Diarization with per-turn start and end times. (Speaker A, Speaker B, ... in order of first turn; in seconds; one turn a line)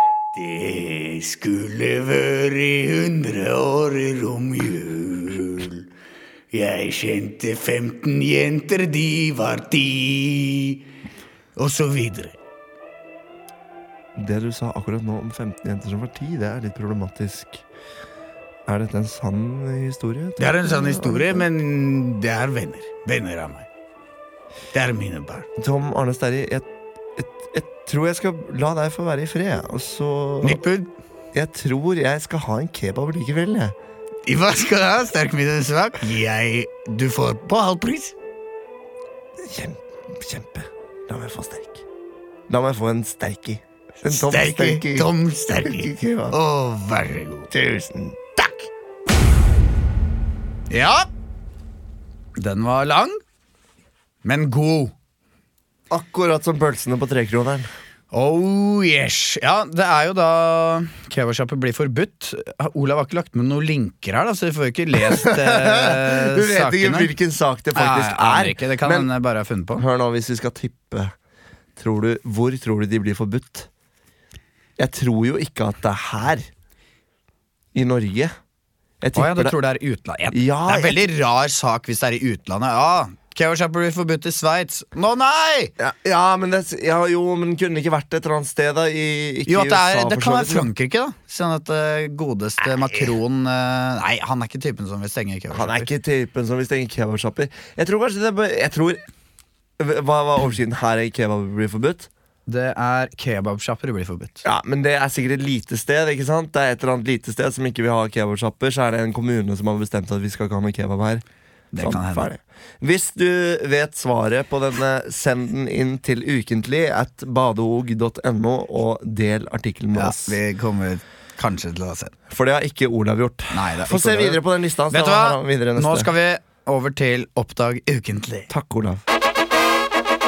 Speaker A: 0.3-5.9
Speaker A: 6.5-10.8
Speaker A: 11.6-12.4
Speaker B: 14.1-17.6
Speaker B: 18.7-21.4
Speaker A: 20.4-23.7
Speaker A: 24.7-25.5
Speaker B: 25.6-26.6
Speaker B: 27.1-30.6
Speaker A: 30.4-30.9
Speaker B: 31.3-33.7
Speaker A: 34.2-38.1
Speaker B: 39.4-41.8
Speaker B: 42.5-45.1
Speaker A: 44.0-47.5
Speaker B: 45.6-46.4
Speaker B: 47.5-48.7
Speaker A: 50.7-51.1
Speaker A: 52.4-53.2
Speaker A: 54.2-54.9
Speaker B: 55.9-57.7
Speaker A: 58.1-67.1
Speaker B: 65.0-69.1
Speaker A: 67.7-69.8
Speaker B: 69.8-71.1
Speaker B: 71.8-73.7
Speaker B: 74.8-76.5
Speaker B: 77.7-78.3
Speaker B: 79.0-79.5
Speaker A: 79.1-85.7
Speaker B: 80.3-81.0
Speaker B: 85.8-90.7
Speaker A: 89.5-95.9
Speaker B: 95.5-99.0
Speaker B: 99.8-102.1
Speaker A: 102.5-104.4
Speaker B: 104.4-111.2
Speaker A: 111.7-112.3
Speaker B: 111.8-120.4
Speaker A: 119.9-122.1
Speaker B: 122.3-126.1
Speaker A: 123.5-128.5
Speaker B: 128.5-129.0